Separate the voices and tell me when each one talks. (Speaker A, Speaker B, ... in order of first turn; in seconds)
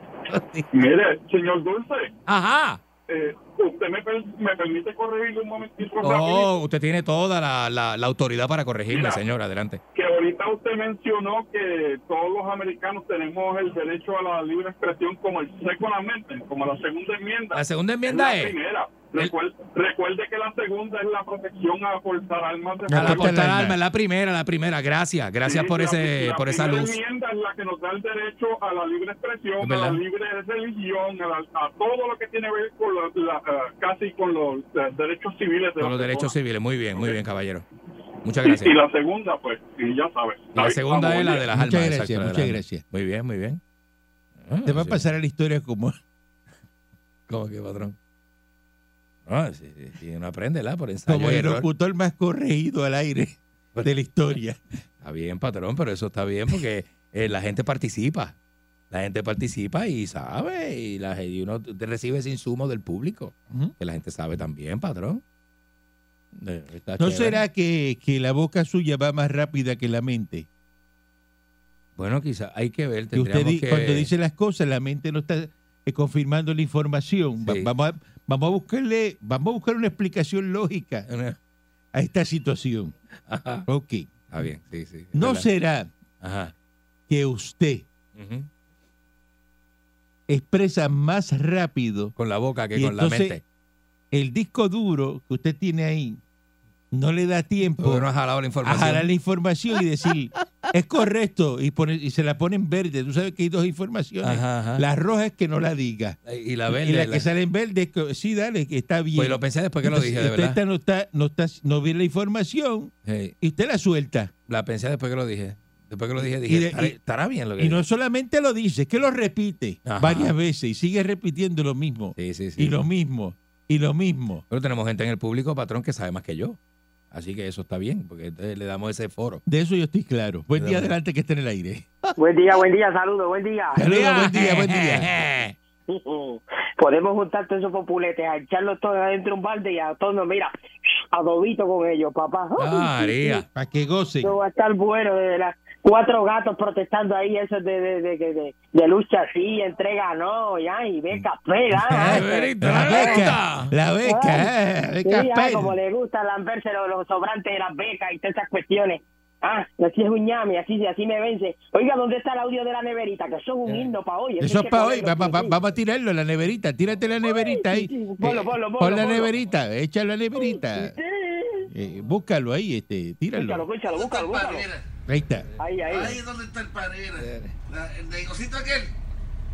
Speaker A: 0.3-0.6, 22.9-23.8, 41.5-42.8, 44.6-46.0, 51.1-54.6, 67.0-70.5, 73.1-81.0, 81.9-82.9, 83.7-84.1, 85.1-85.9, 87.1-87.8, 90.3-92.1, 92.7-93.4, 94.1-96.2, 96.9-98.0, 98.6-106.2, 106.7-114.3, 116.2-117.0, 117.6-124.4, 129.4-131.9, 133.7-135.2, 143.5-144.3, 151.7-155.8, 164.4-170.9, 171.7-173.7, 175.1-175.5
Speaker B: 0.7-2.1, 3.1-6.5, 8.9-9.2, 9.9-23.4, 25.4-36.3, 38.4-41.5
Speaker C: 2.3-2.8, 6.0-9.8, 17.5-18.6, 22.9-27.0, 29.6-30.0, 35.8-37.6, 38.2-38.8, 40.5-43.6, 44.4-45.0, 47.3-48.0, 49.3-51.7, 55.0-58.4, 58.9-65.2, 66.3-67.4, 72.0-74.1, 77.4-77.7, 81.1-81.4, 83.3-83.7, 84.3-85.5, 86.2-86.5, 88.1-88.5, 92.2-93.4, 97.8-99.1, 104.2-104.8, 106.2-107.3, 109.1-110.6, 113.0-113.3, 114.5-117.8, 119.8-120.3, 122.2-122.7, 124.5-126.6, 127.1-129.4, 130.5-130.9, 133.8-135.5, 142.6-143.4, 151.9-153.7, 177.2-177.5
Speaker D: 132.2-133.8, 135.9-140.5, 141.1-143.4, 144.2-153.3, 154.0-154.5, 155.0-165.5, 167.3-169.3, 170.3-171.7, 173.3-174.6, 175.6-176.2
Speaker E: 173.8-174.8, 175.8-178.9